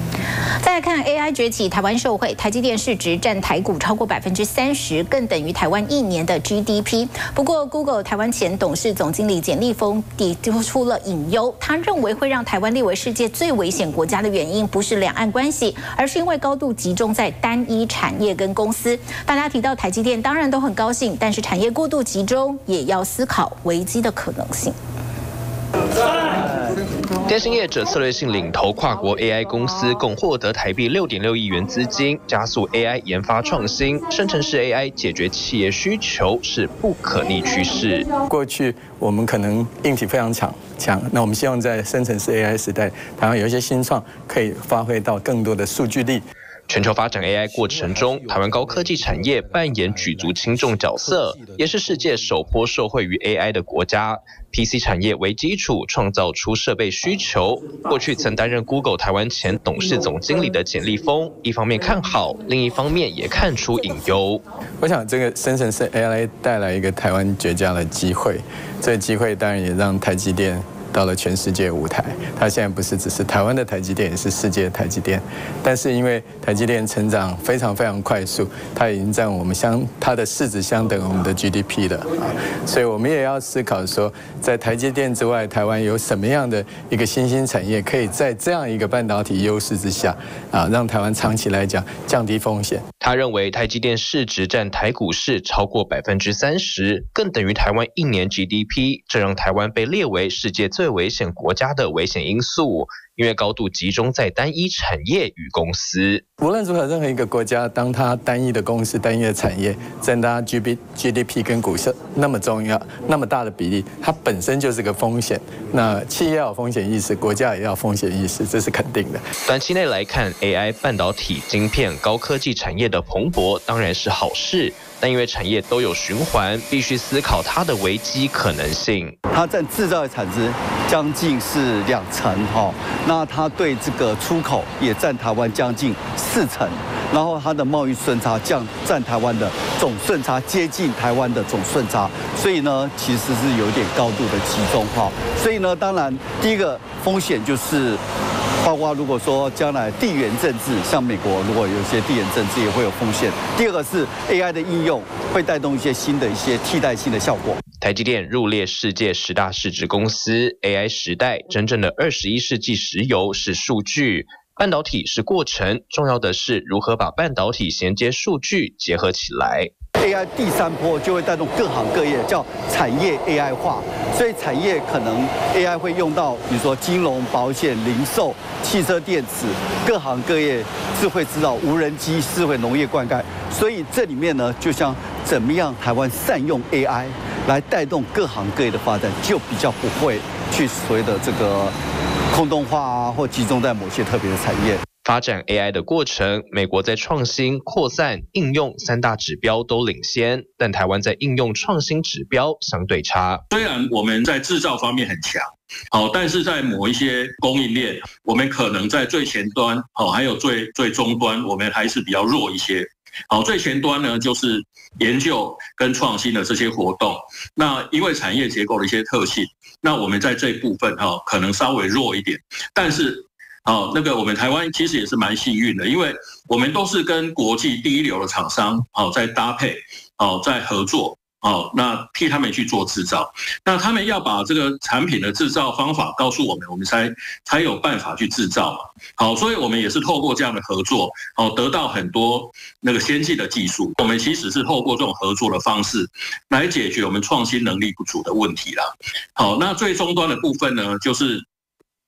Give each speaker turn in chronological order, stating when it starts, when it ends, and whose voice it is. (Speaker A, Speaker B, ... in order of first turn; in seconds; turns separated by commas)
Speaker A: 0.6-24.8, Speaker B: 27.2-38.1, Speaker C: 38.3-46.2, Speaker B: 46.7-64.4, Speaker C: 64.8-92.8, Speaker B: 93.0-106.2, Speaker C: 106.4-119.2, Speaker B: 119.4-129.1, Speaker D: 129.3-148.0, Speaker D: 148.6-157.6, Speaker B: 157.8-169.7, Speaker D: 170.0-191.8, Speaker D: 192.3-194.8, Speaker B: 195.0-203.4, Speaker E: 203.5-251.4